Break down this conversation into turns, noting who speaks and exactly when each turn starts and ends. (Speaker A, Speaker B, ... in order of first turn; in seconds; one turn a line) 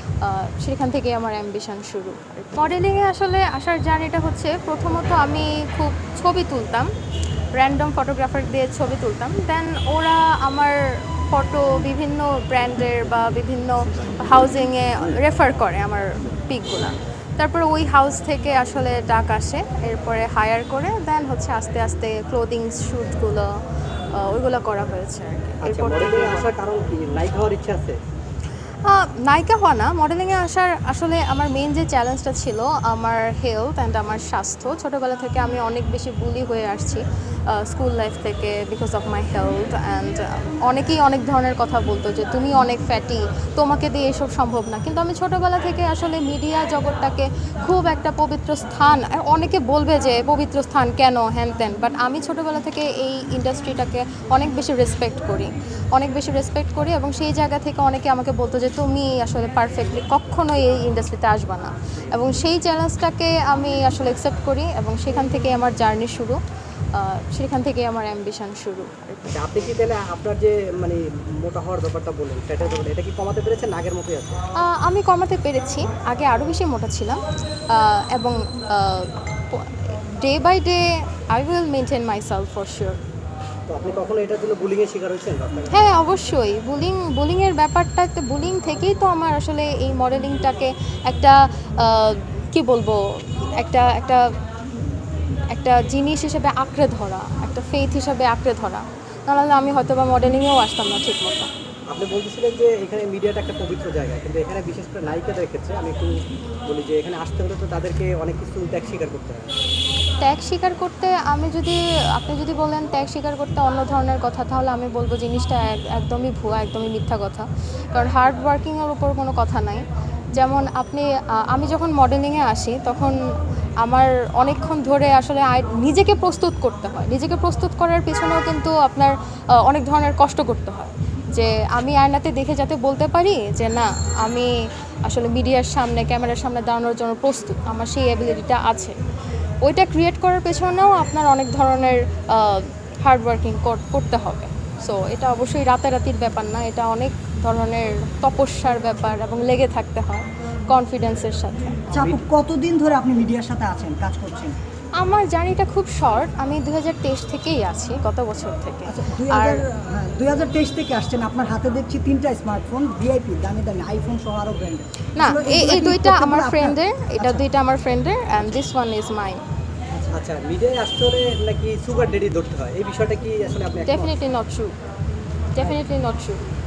Speaker A: 0.2-6.9
Speaker A: 7.5-23.5
Speaker A: 24.1-26.5
Speaker B: 25.6-28.0
Speaker A: 28.8-66.4
Speaker A: 66.9-69.2
Speaker B: 69.3-74.4
Speaker A: 74.5-83.0
Speaker B: 83.7-85.9
Speaker A: 85.7-94.3
Speaker A: 95.5-101.5
Speaker B: 101.9-106.1
Speaker B: 106.7-109.5
Speaker A: 110.2-119.8
Speaker A: 120.3-123.2
Speaker A: 123.8-134.5
Speaker A: 135.1-139.0
Speaker A: 139.6-151.8
Speaker C: 151.9-154.6
Speaker A: 155.0-159.6
Speaker C: 158.8-167.4
Speaker A: 165.1-169.4
Speaker B: 170.1-174.1
Speaker A: 173.9-174.7
Speaker A: 175.5-176.4